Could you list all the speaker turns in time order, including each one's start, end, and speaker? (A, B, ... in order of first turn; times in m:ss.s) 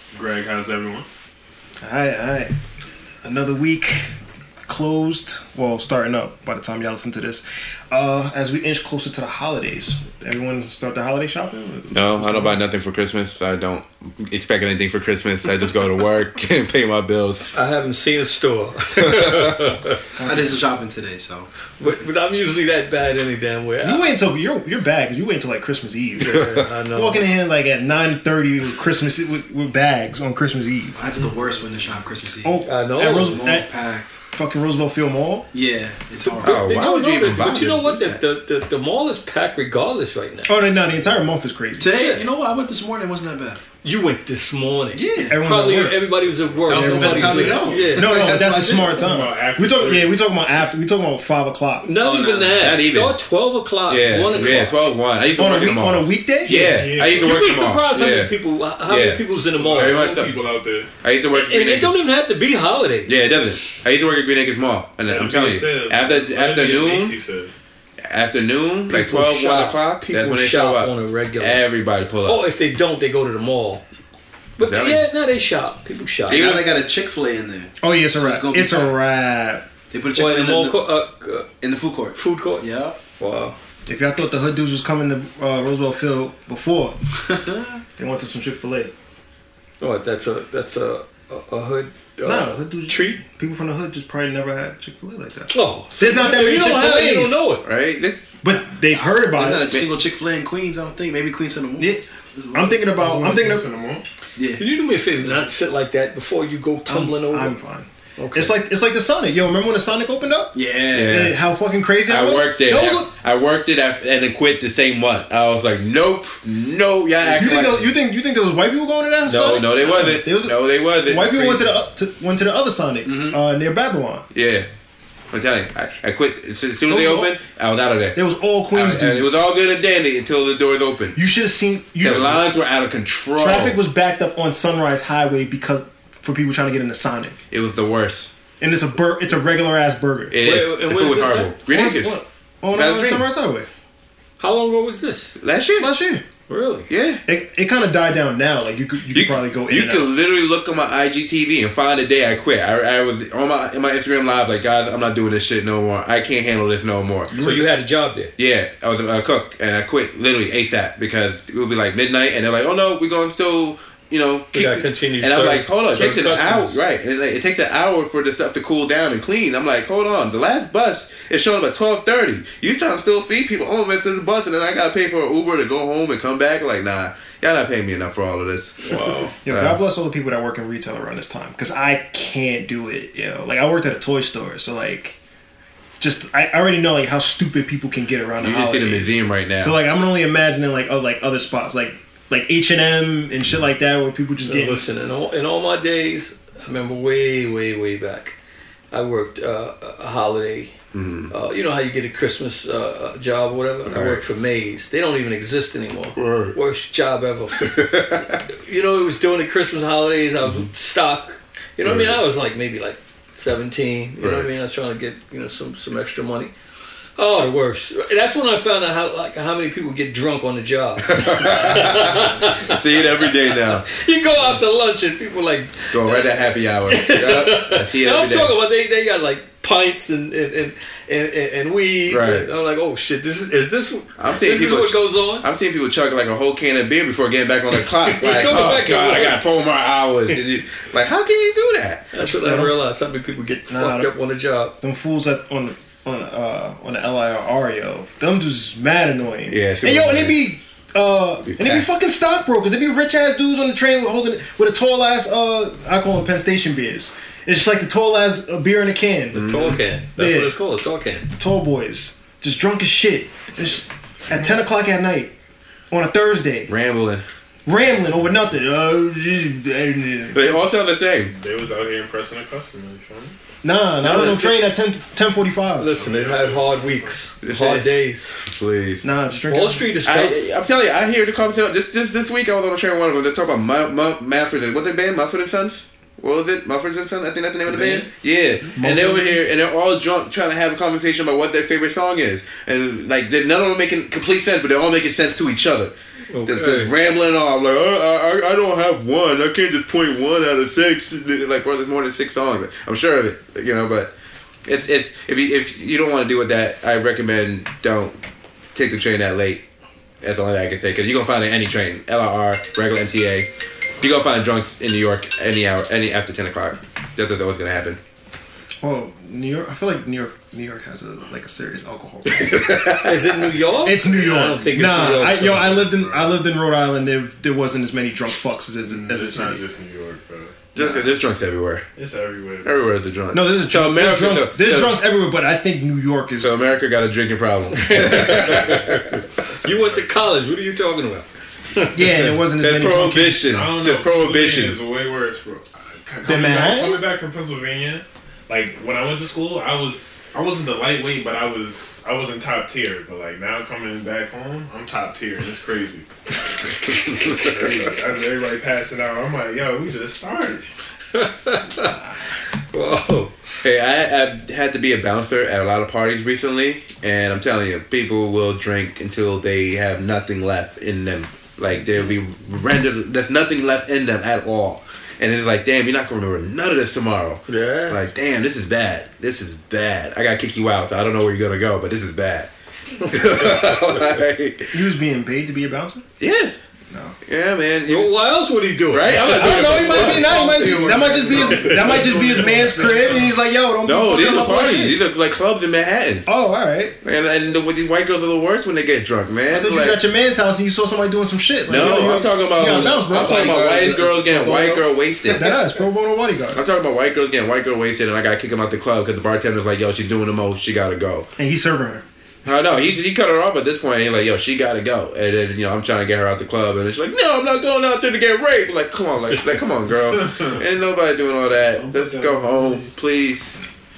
0:00.1-0:01.0 A
0:01.8-0:02.5 B
0:03.2-0:04.1 B
0:04.6-0:12.6 B
0:11.9-0:17.5 C
0:17.5-0:20.0 D
0:20.1-0:20.6 B
0:20.2-0:21.5 E
0:21.8-0:24.1 D
0:23.8-0:31.3 B
0:26.2-0:27.2 D
0:26.3-0:26.6 C
0:31.0-0:34.1 E
0:32.4-0:33.7 B
0:32.6-0:33.4 D
0:34.2-0:35.5 B
0:35.5-0:36.6 E
0:36.3-0:40.5 D
0:36.4-0:38.0 C
0:40.4-0:41.9 B
0:41.8-0:43.6 E
0:42.0-0:42.3 D
0:43.8-0:48.8 D
0:44.9-0:45.4 E
0:45.2-0:46.1 B
0:46.7-0:51.9 B
0:46.7-0:49.0 E
0:48.8-0:50.1 A
0:51.8-0:54.8 D
0:52.0-0:52.7 E
0:52.6-0:53.2 C
0:53.9-0:58.3 C
0:55.4-0:56.6 B
0:56.4-0:57.7 A
0:57.2-1:00.1 D
0:58.9-0:59.2 C
0:59.4-1:00.9 A
0:59.8-1:00.4 C
1:01.0-1:02.0 C
1:01.3-1:03.2 D
1:03.1-1:07.1 C
1:05.1-1:07.5 A
1:08.1-1:12.4 C
1:08.9-1:11.6 D
1:12.2-1:13.8 D
1:14.6-1:16.5 D
1:14.6-1:15.0 C
1:16.3-1:18.9 E
1:16.3-1:16.7 C
1:17.8-1:19.6 B
1:19.9-1:20.8 E
1:20.1-1:21.5 D
1:21.6-1:23.0 E
1:22.1-1:23.6 D
1:23.9-1:27.0 B
1:27.3-1:27.8 E
1:28.0-1:28.9 B
1:29.8-1:33.2 D
1:32.2-1:37.4 B
1:35.5-1:37.6 D
1:37.6-1:38.2 C
1:38.4-1:39.7 B
1:38.5-1:42.8 E
1:41.8-1:43.7 B
1:43.0-1:44.0 A
1:44.4-1:44.6 E
1:44.6-1:47.6 D
1:46.9-1:53.1 B
1:48.2-1:48.6 D
1:50.5-1:51.3 E
1:50.9-1:51.3 C
1:52.1-1:57.9 C
1:57.2-2:04.2 B
1:59.2-2:01.7 C
2:03.1-2:03.4 E
2:04.3-2:04.7 C
2:05.3-2:08.2 C
2:06.9-2:07.3 B
2:08.2-2:09.4 B
2:08.7-2:11.2 C
2:11.2-2:12.5 B
2:12.0-2:13.8 C
2:13.4-2:17.4 B
2:17.5-2:18.3 C
2:18.6-2:20.4 B
2:20.3-2:22.2 C
2:20.4-2:21.5 D
2:21.7-2:23.7 B
2:22.7-2:23.3 C
2:24.4-2:25.4 D
2:25.4-2:25.9 C
2:25.8-2:26.2 B
2:26.5-2:26.9 D
2:26.9-2:27.2 C
2:27.3-2:30.1 B
2:29.1-2:37.3 C
2:37.3-2:37.7 B
2:37.3-2:38.3 D
2:38.4-2:59.8 C
2:44.5-2:46.8 D
2:58.8-2:59.3 D
2:59.4-3:05.2 B
3:06.0-3:14.8 B
3:08.4-3:09.8 C
3:14.4-3:18.3 D
3:18.9-3:20.8 D
3:20.9-3:21.3 C
3:21.3-3:27.7 D
3:23.9-3:24.2 C
3:26.2-3:26.6 C
3:27.6-3:28.4 C
3:28.6-3:36.5 D
3:31.8-3:32.2 C
3:34.2-3:34.5 C
3:37.2-3:46.2 D
3:41.1-3:43.8 C
3:45.9-3:48.5 C
3:46.9-3:55.4 D
3:52.1-3:52.5 C
3:54.2-4:02.0 C
3:58.1-3:59.4 D
4:02.1-4:04.7 D
4:02.3-4:02.8 B
4:03.6-4:04.1 B
4:04.8-4:19.6 B
4:09.5-4:10.4 C
4:11.4-4:11.9 C
4:19.3-4:19.8 C
4:19.4-4:21.3 D
4:20.2-4:20.6 B
4:21.3-4:25.3 B
4:25.9-4:26.7 B
4:26.7-4:27.2 C
4:27.6-4:30.6 B
4:30.3-4:31.4 C
4:31.4-4:33.4 A
4:33.6-4:35.9 B
4:34.0-4:34.5 C
4:34.0-4:34.5 D
4:35.8-4:38.4 D
4:35.9-4:37.2 A
4:37.4-4:39.0 C
4:39.0-4:39.9 B
4:39.5-4:40.4 D
4:40.0-4:55.9 C
4:47.7-4:48.1 E
4:48.8-4:49.4 B
4:56.3-4:56.9 D
4:56.4-5:04.1 C
5:04.6-5:08.1 C
5:08.8-5:09.6 C
5:10.2-5:13.5 C
5:14.0-5:18.0 C
5:18.8-5:23.0 B
5:22.3-5:23.4 C
5:23.0-5:25.9 D
5:23.8-5:29.6 B
5:25.8-5:26.4 A
5:28.8-5:30.6 A
5:30.7-5:31.9 C
5:30.8-5:31.1 B
5:32.0-5:32.8 A
5:32.6-5:35.0 C
5:33.3-5:36.6 B
5:36.4-5:39.2 C
5:37.8-5:42.2 D
5:39.6-5:40.0 A
5:41.9-5:43.4 B
5:42.6-5:44.8 C
5:43.4-5:56.1 A
5:46.2-5:47.0 B
5:56.6-5:57.8 C
5:56.6-6:00.6 A
6:01.1-6:02.0 D
6:02.7-6:03.3 D
6:03.6-6:22.5 C
6:17.5-6:18.0 D
6:23.0-6:23.3 D
6:23.0-6:24.8 C
6:24.7-6:26.0 B
6:26.2-6:26.5 C
6:26.9-6:27.2 B
6:27.2-6:28.1 C
6:27.9-6:32.4 D
6:28.9-6:32.2 C
6:29.3-6:35.0 B
6:31.2-6:33.3 A
6:33.8-6:36.3 C
6:36.2-6:37.0 B
6:37.0-6:40.0 C
6:39.5-6:43.8 B
6:41.7-6:45.6 C
6:42.8-6:44.8 E
6:45.2-6:46.6 B
6:46.5-6:51.3 C
6:51.4-6:52.0 B
6:52.4-7:03.6 C
7:00.1-7:00.6 A
7:01.6-7:02.9 A